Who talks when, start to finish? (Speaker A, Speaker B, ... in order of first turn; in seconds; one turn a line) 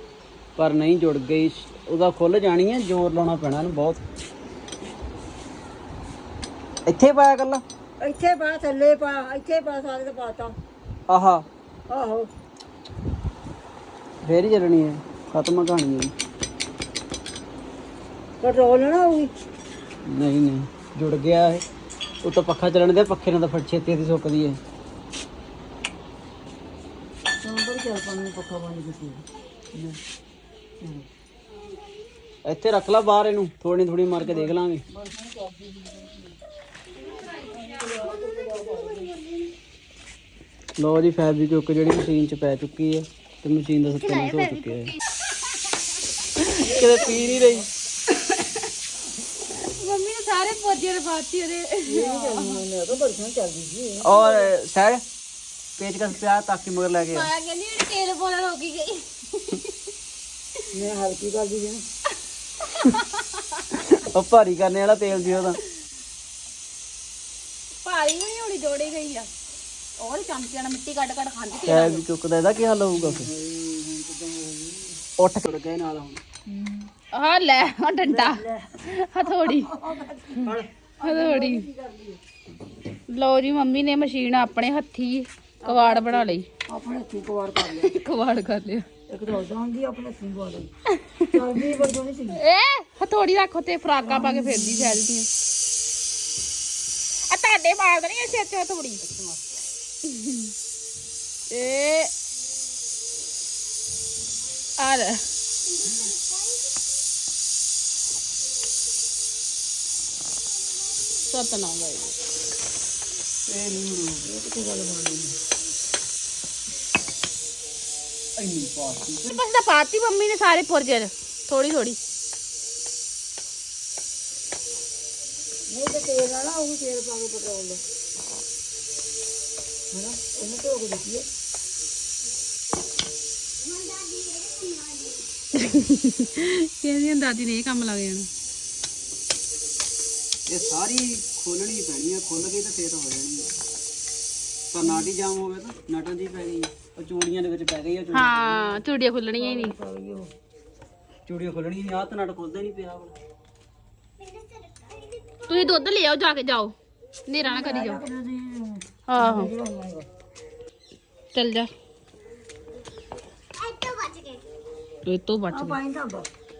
Speaker A: 0.6-4.0
Speaker A: 6.9-7.6
Speaker B: 8.0-10.5
Speaker A: 11.1-11.4
Speaker B: 11.9-12.3
Speaker A: 14.2-16.1
Speaker B: 18.4-19.3
Speaker A: 20.0-21.6
Speaker A: 22.2-24.6
Speaker B: 27.4-29.2
Speaker B: 30.8-31.1
Speaker A: 32.5-34.8
Speaker B: 34.2-36.4
Speaker C: 36.9-38.2
Speaker B: 37.5-39.1
Speaker D: 38.0-39.5
Speaker A: 40.8-45.0
Speaker D: 44.0-45.0
Speaker A: 46.4-47.7
Speaker B: 46.6-47.7
Speaker C: 48.1-48.6
Speaker C: 49.5-52.6
Speaker B: 51.8-54.5
Speaker A: 54.0-55.0
Speaker A: 55.8-57.3
Speaker C: 57.0-59.7
Speaker B: 60.7-61.8
Speaker C: 62.7-63.6
Speaker A: 63.7-65.6
Speaker C: 67.8-69.3
Speaker C: 70.0-72.0
Speaker A: 71.7-73.3
Speaker B: 72.9-75.0
Speaker A: 75.2-76.2
Speaker B: 76.5-76.9
Speaker C: 77.1-79.8
Speaker B: 78.0-82.2
Speaker C: 80.4-81.6
Speaker C: 83.1-86.5
Speaker B: 85.6-88.0
Speaker C: 87.7-88.9
Speaker B: 89.1-90.7
Speaker C: 90.9-91.4
Speaker B: 91.3-92.4
Speaker C: 92.3-95.3
Speaker B: 94.0-95.0
Speaker C: 97.3-99.0
Speaker B: 99.0-99.4
Speaker C: 100.1-100.5
Speaker C: 101.5-102.1
Speaker C: 104.8-105.2
Speaker D: 105.7-106.7
Speaker C: 111.3-112.2
Speaker A: 113.5-114.3
Speaker B: 114.2-115.3
Speaker A: 118.4-119.3
Speaker C: 119.2-122.0
Speaker B: 125.7-127.8
Speaker B: 129.9-131.3
Speaker D: 133.6-135.3
Speaker C: 135.6-138.3
Speaker A: 140.5-143.5
Speaker A: 144.7-148.5
Speaker B: 144.8-145.1
Speaker C: 148.1-149.8
Speaker B: 149.3-150.3
Speaker A: 151.2-153.1
Speaker D: 154.2-155.9
Speaker C: 155.5-156.7
Speaker C: 157.3-158.0
Speaker B: 157.4-160.1
Speaker C: 159.1-159.5
Speaker C: 161.3-161.7
Speaker D: 163.6-164.4
Speaker C: 165.1-165.8
Speaker B: 165.5-166.3